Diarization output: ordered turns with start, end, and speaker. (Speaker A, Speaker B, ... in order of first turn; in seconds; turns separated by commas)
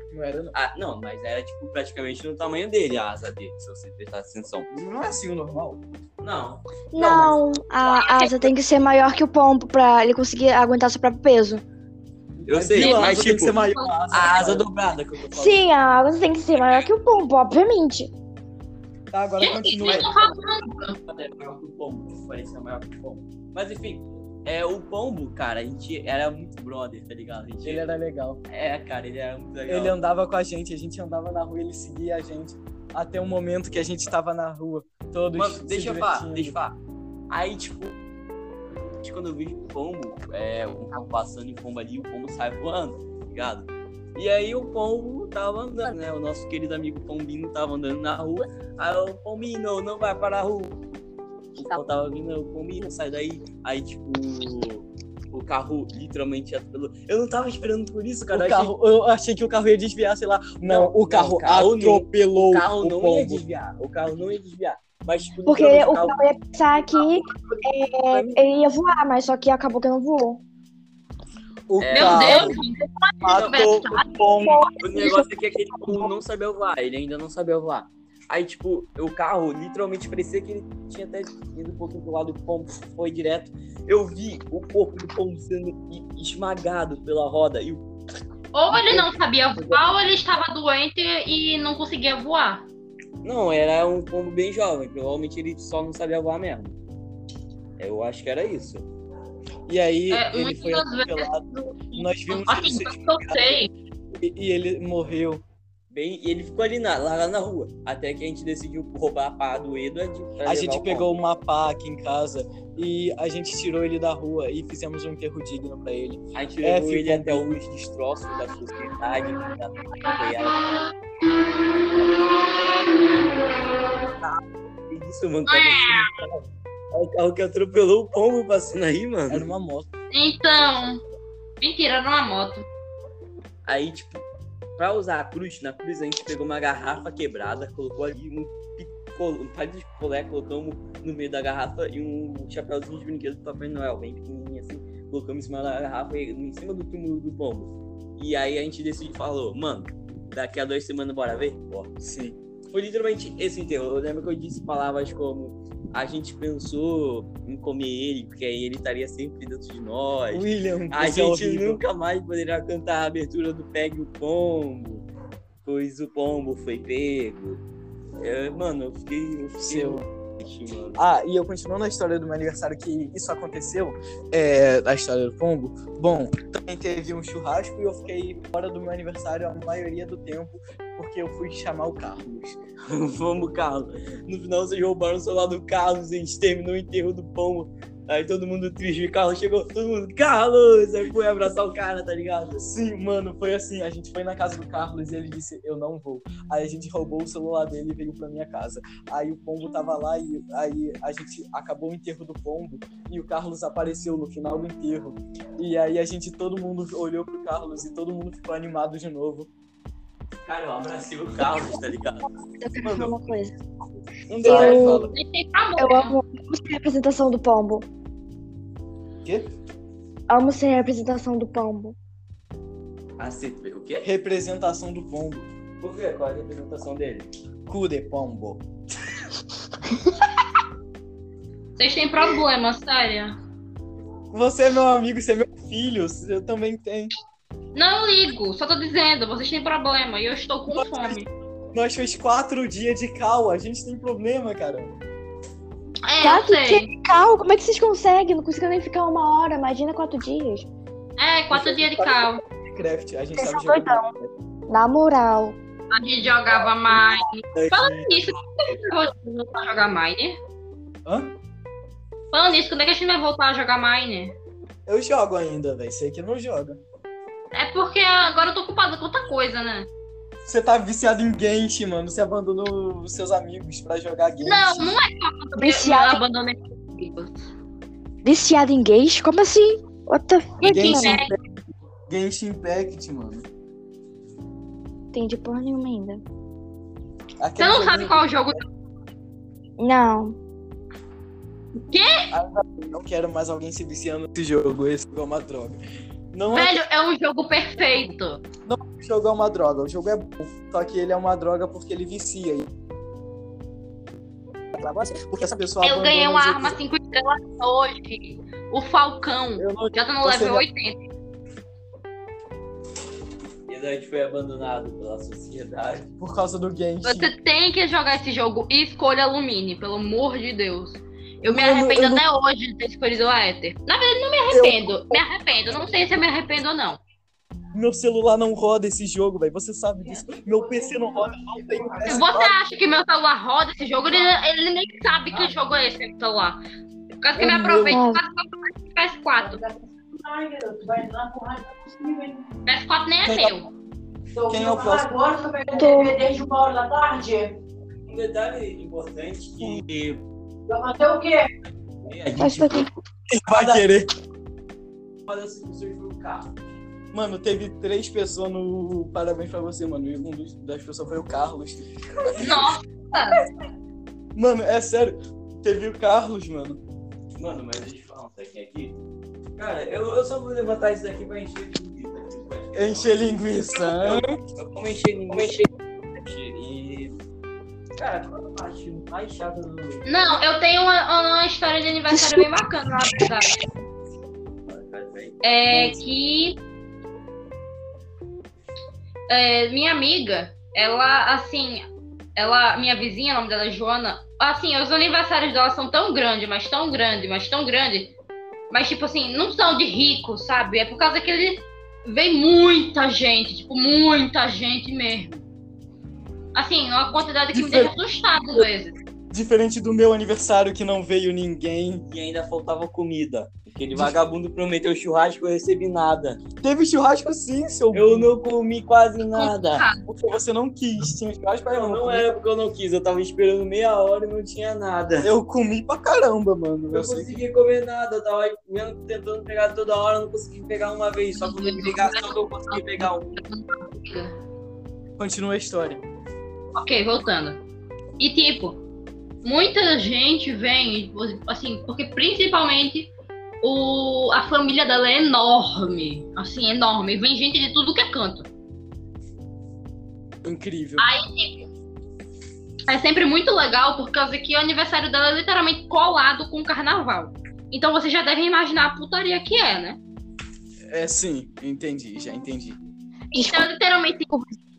Speaker A: 0.1-0.5, Speaker B: 0.5-4.7, Speaker A: 4.7-5.8, Speaker B: 6.2-7.3, Speaker C: 6.9-11.6, Speaker D: 7.8-8.5, Speaker A: 12.4-14.7, Speaker B: 12.5-15.6, Speaker D: 12.8-13.9, Speaker C: 15.4-18.1, Speaker A: 19.1-20.1, Speaker D: 19.4-21.0, Speaker B: 21.1-27.9, Speaker A: 27.6-28.4, Speaker B: 28.5-30.0, Speaker A: 29.7-36.5, Speaker B: 35.4-36.8, Speaker B: 37.3-38.0, Speaker B: 39.0-50.8, Speaker B: 51.6-58.7, Speaker A: 58.3-63.5, Speaker B: 60.6-66.2, Speaker C: 65.5-70.4, Speaker A: 68.1-68.4, Speaker A: 71.7-72.6, Speaker B: 71.8-72.6, Speaker D: 71.9-75.1, Speaker A: 73.2-74.7, Speaker B: 73.3-73.9, Speaker C: 74.4-75.3, Speaker B: 74.8-87.9, Speaker C: 75.9-76.1, Speaker D: 88.5-92.7, Speaker A: 88.7-89.8, Speaker B: 93.2-96.8, Speaker B: 97.8-98.9, Speaker A: 99.7-105.4, Speaker D: 100.1-103.7, Speaker B: 105.9-111.2, Speaker A: 110.4-117.6, Speaker B: 116.3-120.8, Speaker B: 121.8-122.2, Speaker B: 124.2-129.5, Speaker D: 125.5-126.1, Speaker A: 129.3-129.9, Speaker D: 130.1-131.0, Speaker D: 131.6-132.7, Speaker B: 133.7-134.2, Speaker B: 134.8-151.9, Speaker A: 152.0-152.4, Speaker B: 152.7-165.1, Speaker A: 160.3-161.8, Speaker B: 165.6-167.6, Speaker B: 168.2-171.0, Speaker A: 169.6-170.1, Speaker A: 171.0-182.6, Speaker B: 182.9-192.7, Speaker A: 192.7-209.5, Speaker B: 210.5-212.3, Speaker C: 212.6-213.6, Speaker B: 212.8-213.2, Speaker A: 214.3-215.1, Speaker C: 214.4-215.1, Speaker D: 214.4-216.2, Speaker C: 215.8-217.9, Speaker A: 219.2-219.5, Speaker C: 220.3-222.0, Speaker B: 223.2-224.1, Speaker A: 224.0-225.5, Speaker B: 225.8-227.3, Speaker A: 227.7-228.6, Speaker D: 231.8-233.4, Speaker A: 234.3-237.1, Speaker D: 237.7-241.3, Speaker A: 240.7-244.9, Speaker D: 246.1-246.9, Speaker C: 246.2-250.7, Speaker D: 251.2-252.4, Speaker A: 251.5-254.3, Speaker C: 253.4-254.1, Speaker C: 254.7-255.6, Speaker D: 255.9-260.4, Speaker A: 256.5-258.2, Speaker A: 261.1-261.4, Speaker D: 262.3-264.4, Speaker A: 264.9-266.8, Speaker D: 267.5-269.9, Speaker A: 270.5-275.0, Speaker D: 274.5-277.5, Speaker C: 275.6-276.2, Speaker C: 278.2-281.2, Speaker A: 280.6-281.4, Speaker D: 280.6-281.3, Speaker A: 282.1-283.5, Speaker C: 285.1-286.2, Speaker A: 287.4-288.6, Speaker D: 287.6-288.6, Speaker C: 289.8-290.4, Speaker D: 291.9-292.3, Speaker A: 292.3-295.8, Speaker A: 296.3-296.8, Speaker D: 296.5-298.4, Speaker A: 298.7-302.7, Speaker A: 304.7-306.8, Speaker D: 305.8-311.0, Speaker A: 309.6-310.7, Speaker B: 313.7-316.1, Speaker A: 316.2-317.3, Speaker D: 317.0-327.0, Speaker A: 321.5-322.2, Speaker A: 324.5-325.2, Speaker A: 327.7-332.5, Speaker E: 330.0-332.4, Speaker D: 332.1-336.6, Speaker D: 337.2-339.6, Speaker C: 337.4-338.2, Speaker E: 339.4-342.5, Speaker D: 342.7-343.7, Speaker A: 343.2-343.6, Speaker E: 344.4-347.5, Speaker A: 344.5-345.1, Speaker C: 345.7-346.2, Speaker B: 348.1-350.2, Speaker E: 350.7-351.5, Speaker B: 352.0-352.9, Speaker C: 352.4-352.9, Speaker A: 353.3-354.1, Speaker B: 353.5-353.9, Speaker B: 355.3-356.6, Speaker A: 357.1-362.7, Speaker D: 362.4-363.4, Speaker A: 364.4-366.8, Speaker B: 367.4-369.0, Speaker B: 369.6-377.2, Speaker A: 372.8-374.4, Speaker B: 378.0-380.1, Speaker D: 380.1-383.6, Speaker C: 382.1-382.5, Speaker B: 384.7-385.4, Speaker D: 385.4-386.6, Speaker D: 389.3-398.1, Speaker D: 398.7-405.4, Speaker D: 406.5-408.9, Speaker A: 407.5-407.9, Speaker A: 409.3-412.1, Speaker B: 412.1-416.4, Speaker A: 413.9-414.2, Speaker A: 416.6-418.3, Speaker B: 417.9-419.9, Speaker D: 419.3-420.0, Speaker A: 420.1-422.3, Speaker B: 421.7-425.3, Speaker A: 425.2-427.4, Speaker B: 426.9-433.4, Speaker D: 431.4-434.4, Speaker A: 435.2-436.0, Speaker D: 436.8-437.6, Speaker D: 438.2-438.8, Speaker D: 439.4-443.1, Speaker D: 443.6-448.5, Speaker A: 450.4-451.1, Speaker D: 451.0-451.7, Speaker D: 452.9-460.0, Speaker A: 460.9-462.8, Speaker C: 463.3-463.7, Speaker D: 463.4-464.3, Speaker C: 464.3-464.6